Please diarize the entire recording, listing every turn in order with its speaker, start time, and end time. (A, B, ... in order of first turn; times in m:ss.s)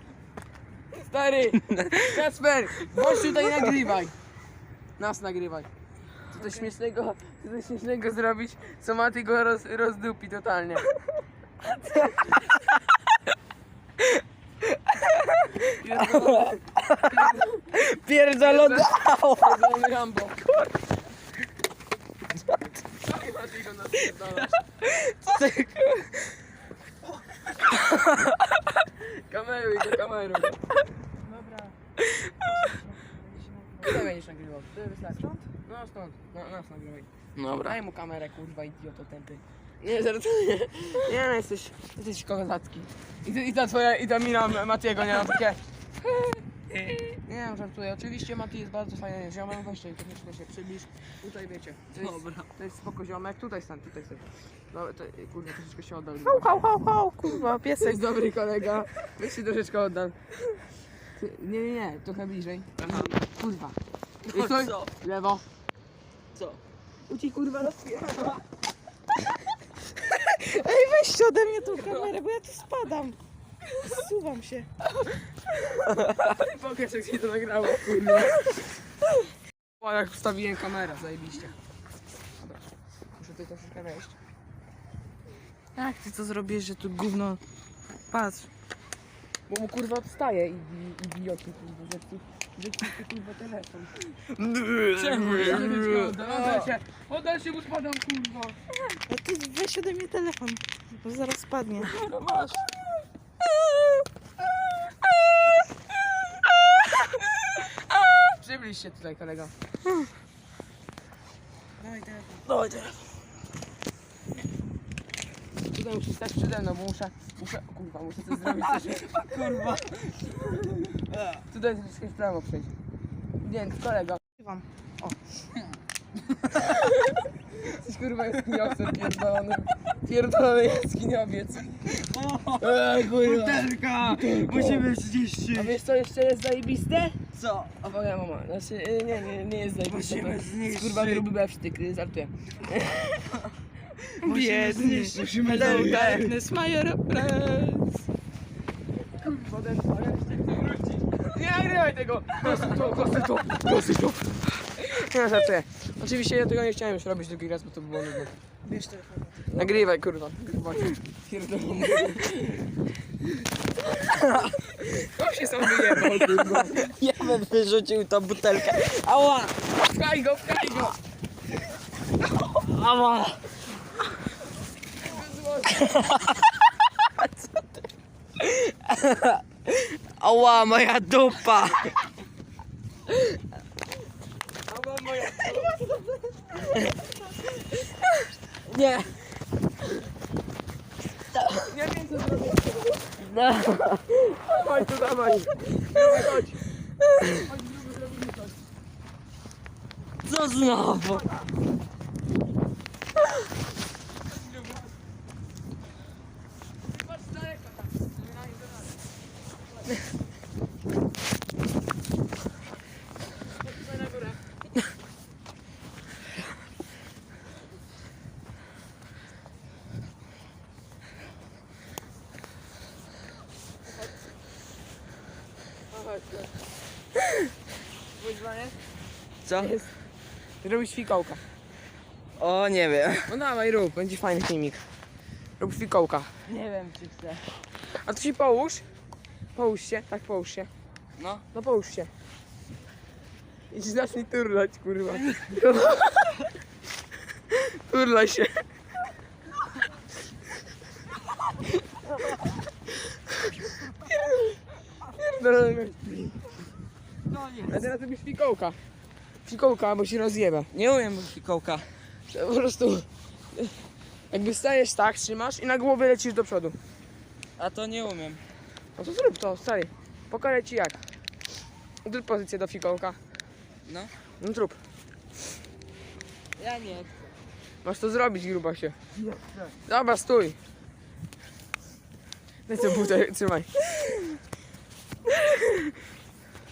0:00.9-0:04.2 A
0:01.5-0:02.2 B
0:02.9-0:03.8 B
0:05.0-0:05.7 A
0:06.3-0:10.9 A
0:06.3-0:06.7 C
0:12.0-0:12.3 A
0:12.0-0:12.7 B
0:14.0-0:19.7 B
0:15.6-0:17.6 A
0:18.4-0:20.8 A
0:22.3-0:22.8 B
0:23.0-0:24.6 A
0:24.4-0:26.3 B
0:27.7-0:28.8 B
0:29.0-0:30.6 A
0:31.2-0:31.8 C
0:32.4-0:34.1 C
0:33.8-0:37.1 A
0:35.1-0:35.5 C
0:37.4-0:37.8 B
0:37.6-0:45.6 A
0:46.7-0:47.1 B
0:47.2-0:56.6 A
0:52.0-0:52.5 B
0:56.3-0:58.0 C
0:57.2-0:57.5 B
0:57.8-1:00.2 A
1:01.2-1:05.4 A
1:04.2-1:04.9 B
1:06.4-1:06.6 B
1:07.1-1:08.4 A
1:10.1-1:13.2 C
1:13.8-1:14.7 C
1:15.9-1:16.4 B
1:16.2-1:18.5 A
1:19.8-1:21.6 A
1:22.4-1:24.2 A
1:25.8-1:27.4 C
1:28.1-1:28.5 C
1:29.5-1:34.1 A
1:34.4-1:36.7 B
1:34.9-1:38.6 A
1:38.9-1:41.9 C
1:41.8-1:42.6 B
1:48.4-1:49.5 A
1:51.8-1:52.5 C
1:52.5-1:53.0 B
1:55.7-1:59.2 A
1:58.4-2:00.4 B
2:01.1-2:01.4 B
2:01.5-2:02.7 A
2:03.4-2:04.2 A
2:04.4-2:05.2 C
2:06.6-2:12.0 A
2:11.9-2:15.7 B
2:12.6-2:14.9 A
2:15.5-2:17.2 A
2:17.4-2:17.8 B
2:17.7-2:23.2 A
2:19.9-2:21.3 B
2:24.2-2:26.4 B
2:24.2-2:27.9 C
2:25.1-2:26.4 A
2:29.2-2:38.4 A
2:38.6-2:39.6 C
2:39.5-2:42.6 A
2:44.0-2:44.7 B
2:44.8-2:46.9 A
2:45.9-2:49.6 B
2:49.7-2:51.0 A
2:52.4-2:53.4 B
2:55.0-2:56.3 A
2:55.7-2:56.5 B
2:58.4-3:01.9 B
3:04.7-3:06.2 A
3:08.6-3:09.2 B
3:11.3-3:11.6 B
3:11.5-3:13.1 A
3:13.2-3:14.2 B
3:14.1-3:16.6 A
3:15.9-3:16.2 B
3:17.3-3:18.6 A
3:20.2-3:21.3 B
3:24.2-3:24.9 A
3:26.9-3:29.0 A
3:33.5-3:34.4 A
3:45.9-3:46.5 A
3:48.2-3:48.8 A
3:49.4-3:49.7 B
3:49.5-3:49.9 A
3:50.6-3:51.4 A
3:52.4-3:53.3 B
3:53.3-3:54.8 A
3:55.6-3:56.3 A
3:56.5-3:57.4 B
3:58.0-3:58.8 A
3:59.6-4:00.7 A
4:01.2-4:01.4 B
4:01.5-4:02.1 A
4:03.7-4:06.2 A
4:05.1-4:05.6 B
4:07.5-4:08.6 A
4:14.0-4:16.4 A
4:17.3-4:17.8 B
4:17.7-4:18.8 A
4:19.5-4:20.7 A
4:20.7-4:21.9 B
4:22.3-4:23.8 A
4:24.3-4:26.8 A
4:27.6-4:28.4 B
4:29.0-4:31.0 A
4:32.0-4:33.2 A
4:33.9-4:34.1 B
4:34.4-4:34.8 A
4:36.6-4:37.3 B
4:37.8-4:39.0 A
4:39.6-4:40.6 A
4:42.7-4:43.7 A
4:45.4-4:45.8 B